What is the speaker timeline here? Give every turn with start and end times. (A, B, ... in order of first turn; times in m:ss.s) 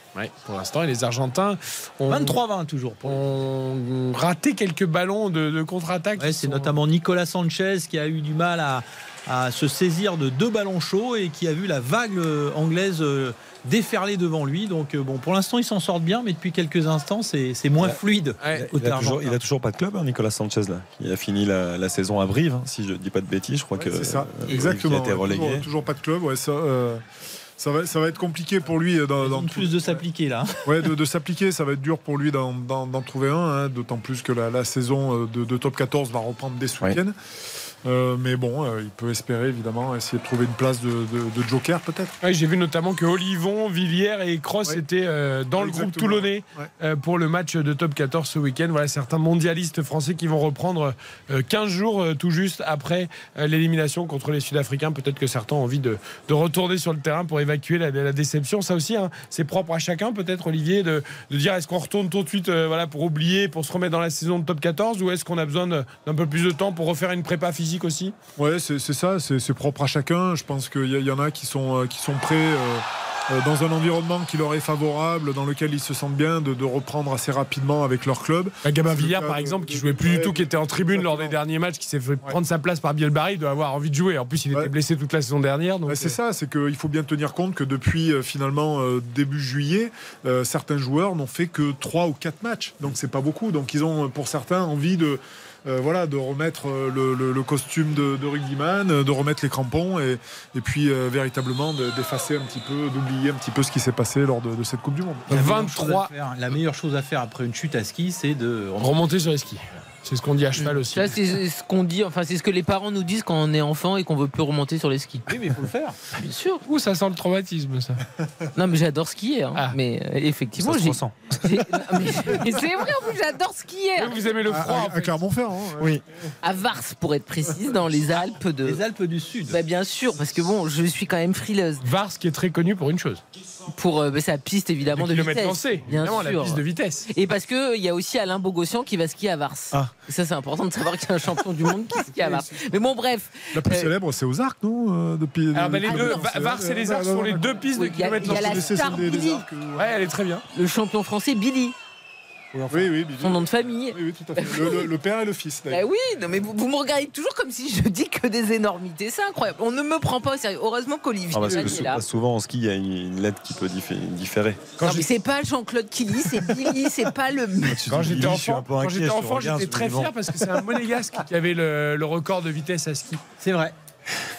0:00.1-0:02.4 A
0:02.0-0:03.2 B
0:03.0-0:06.8 A
0:06.2-0:19.3 B
0:18.4-0:18.7 A
0:18.5-0:25.6 C
0:23.7-0:27.0 D
0:27.6-0:30.0 D
0:29.2-0:30.9 B
0:30.6-0:37.1 D
0:37.8-0:42.1 D
0:42.2-1:08.1 A
0:45.6-0:46.7 D
1:08.4-1:21.4 D
1:18.6-1:26.2 A
1:25.9-1:45.3 D
1:45.3-1:46.1 A
1:45.3-1:49.2 B
1:48.8-1:51.3 A
1:50.6-1:55.3 E
1:55.3-1:56.0 B
1:56.2-1:56.6 E
1:56.6-1:58.0 A
1:58.5-2:04.4 E
2:00.6-2:01.6 C
2:04.0-2:05.2 A
2:04.4-2:06.0 D
2:06.4-2:08.8 E
2:08.6-2:09.6 B
2:09.5-2:11.8 E
2:11.8-2:13.2 A
2:13.8-2:23.9 E
2:14.9-2:17.1 A
2:23.5-2:30.2 D
2:25.5-2:29.0 A
2:25.8-2:26.3 E
2:27.8-2:29.4 E
2:29.8-2:30.4 A
2:30.5-2:31.7 E
2:32.5-2:32.8 B
2:32.7-2:34.9 E
2:32.7-2:35.8 D
2:35.7-2:42.0 E
2:41.3-2:44.6 C
2:41.5-2:41.8 D
2:44.8-2:45.1 A
2:44.8-2:47.8 E
2:47.6-2:50.1 C
2:47.9-2:53.2 A
2:53.4-2:53.7 B